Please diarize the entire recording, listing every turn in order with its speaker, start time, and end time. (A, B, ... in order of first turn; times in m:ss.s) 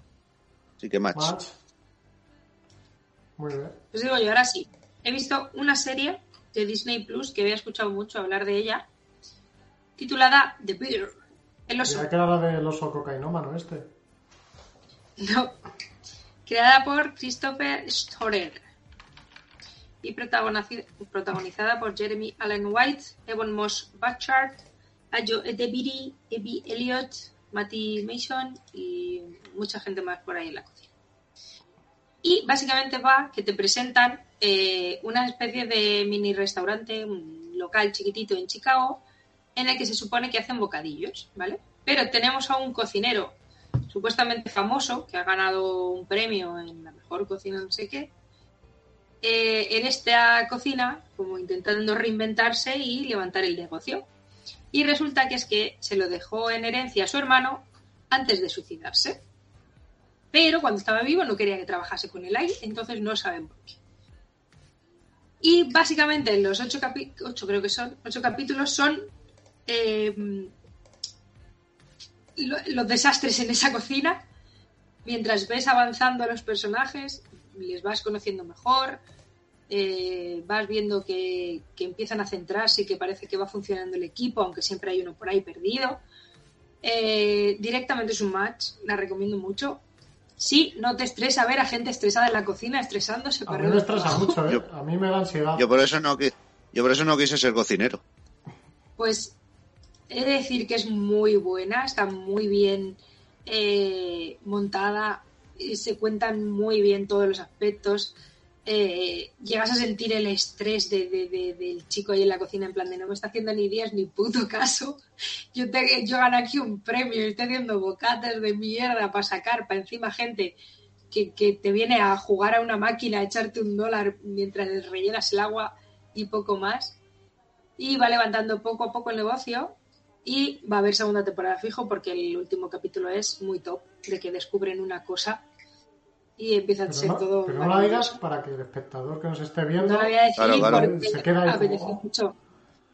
0:00.8-0:01.4 A
0:01.1-0:01.5 B
0:03.4-0:03.8 B
0:03.9-0:08.9 C
0:10.0-0:11.1 C
0:11.7-0:12.1 C
0:11.8-0:13.9 B
0:15.2-0:15.6 C
0:16.5-0:18.7 C
0:20.0-0:30.9 C
0:32.2-0:39.0 C
0:39.6-0:43.4 C
0:43.9-0:48.1 C
0:49.2-0:54.0 C
0:54.7-0:59.2 C
1:00.3-1:03.8 C
1:05.4-1:09.1 C
1:09.7-1:10.5 C
1:12.4-1:14.2 C
1:15.0-1:19.0 C
1:19.7-1:26.0 C
1:26.8-1:29.8 C
1:30.4-1:34.4 C
1:33.5-1:35.7 B
1:35.6-1:38.0 A
1:39.0-1:39.4 C
1:40.1-1:55.0 C
1:55.5-2:00.6 C
2:01.1-2:07.0 C
2:07.8-2:15.4 C
2:16.4-2:18.2 C
2:16.9-2:22.0 B
2:19.8-2:22.4 C
2:20.4-2:20.9 A